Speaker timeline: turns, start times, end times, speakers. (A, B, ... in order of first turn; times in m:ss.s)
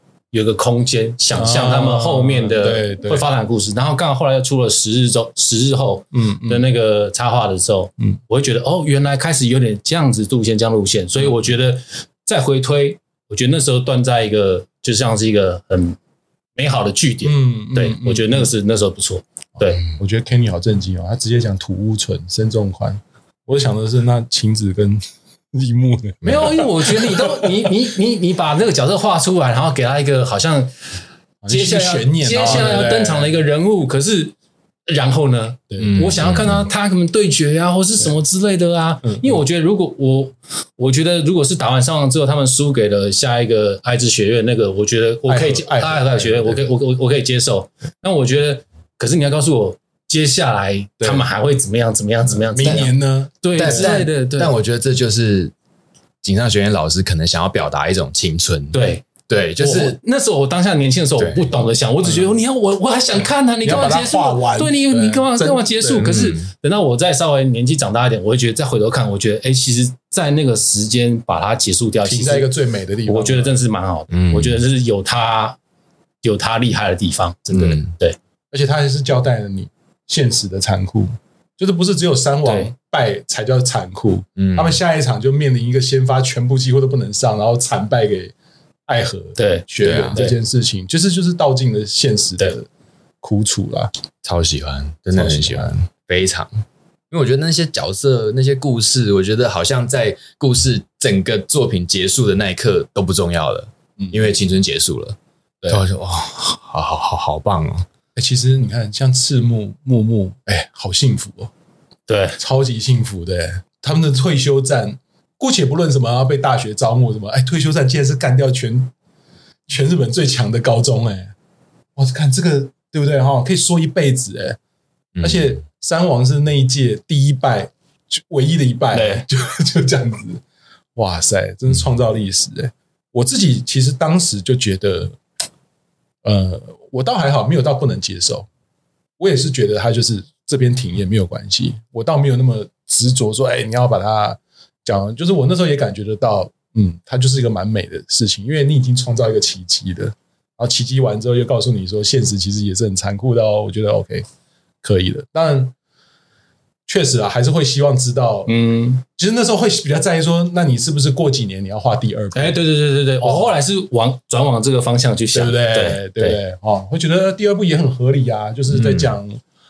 0:00.3-0:16.0 A
0:01.3-0:03.2 B
0:06.1-0:06.6 B
0:16.6-0:19.8 A
0:17.2-0:18.5 B
0:19.6-0:25.0 B
0:25.5-0:27.6 B
0:26.2-0:26.6 C
0:26.2-0:30.7 A
0:31.4-0:33.4 B
0:31.5-0:34.3 A
0:34.9-0:54.5 A
0:35.7-0:36.2 B
0:35.8-0:36.7 C
0:39.0-0:39.4 B
0:45.3-0:46.6 B
0:51.0-0:51.3 B
0:52.4-0:54.0 B
0:53.5-0:55.5 C
0:56.2-1:00.0 C
0:58.7-0:59.0 A
0:59.6-1:12.5 A
1:01.2-1:01.7 C
1:02.0-1:02.4 B
1:03.6-1:06.2 B
1:06.0-1:06.5 C
1:12.0-1:13.6 B
1:13.1-1:15.6 A
1:14.1-1:14.6 C
1:16.2-1:18.2 A
1:17.5-1:17.9 C
1:18.5-1:28.3 B
1:22.4-1:22.7 A
1:24.4-1:24.8 C
1:28.9-1:32.7 B
1:29.4-1:30.4 A
1:29.8-1:30.2 C
1:33.2-1:33.9 B
1:34.2-1:36.5 C
1:35.1-1:35.8 B
1:37.1-1:47.8 C
1:44.0-1:44.3 B
1:48.1-1:51.5 B
1:52.1-1:52.4 A
1:52.4-1:58.9 B
1:59.7-2:01.3 B
2:02.0-2:04.6 B
2:05.1-2:05.6 C
2:05.2-2:10.4 B
2:08.9-2:09.2 A
2:11.0-2:15.2 B
2:16.2-2:18.5 B
2:19.2-2:34.2 B
2:34.8-2:35.7 B
2:36.9-2:42.6 B
2:38.5-2:39.0 A
2:42.3-2:46.4 A
2:43.2-2:43.5 B
2:45.3-2:49.4 B
2:48.7-2:49.1 C